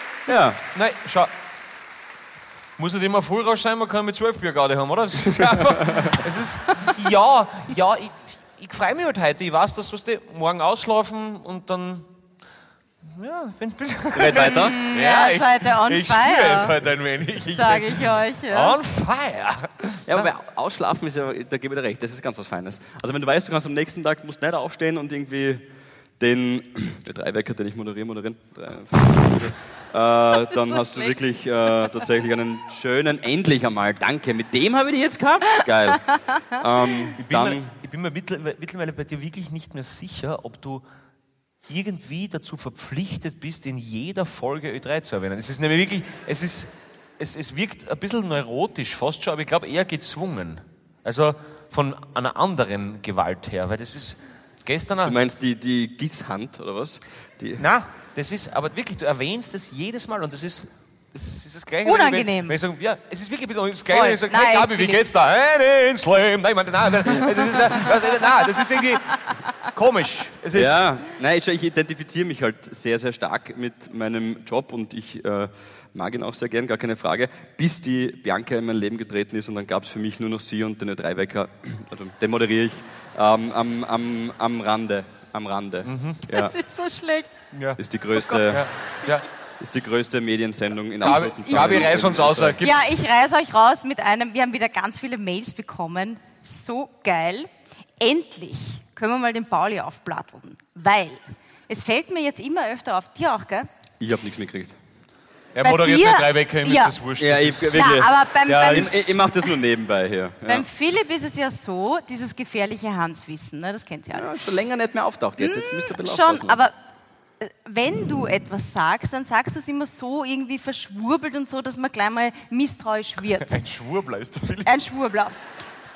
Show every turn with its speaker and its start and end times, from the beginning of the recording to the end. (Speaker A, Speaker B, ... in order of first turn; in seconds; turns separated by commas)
Speaker A: 0.3-0.6, Speaker B: 0.7-1.3, Speaker B: 2.8-12.1, Speaker A: 5.4-6.1, Speaker B: 13.1-20.0, Speaker A: 14.1-14.8, Speaker C: 14.3-16.8, Speaker C: 17.5-18.8, Speaker A: 20.1-25.6, Speaker A: 26.2-37.7, Speaker C: 30.5-31.2, Speaker C: 36.9-37.1, Speaker B: 37.2-40.8, Speaker B: 41.7-55.2, Speaker A: 55.0-57.7, Speaker B: 57.6-70.8, Speaker C: 61.9-62.6, Speaker C: 63.9-65.0, Speaker A: 70.5-86.5, Speaker B: 85.8-86.2, Speaker C: 86.3-87.3, Speaker B: 87.5-87.8, Speaker A: 87.8-88.7, Speaker C: 88.1-89.1, Speaker B: 88.5-89.3, Speaker A: 89.6-92.6, Speaker B: 91.0-92.9, Speaker C: 91.5-91.9, Speaker C: 92.6-97.5, Speaker C: 98.0-103.7, Speaker A: 104.0-104.8, Speaker B: 105.5-107.9, Speaker C: 105.6-107.0, Speaker A: 107.2-110.7, Speaker C: 107.7-109.5, Speaker B: 108.5-109.1, Speaker C: 110.5-114.3, Speaker A: 114.1-116.6, Speaker C: 115.4-116.7, Speaker C: 117.4-123.6, Speaker B: 123.5-124.7, Speaker C: 124.7-125.3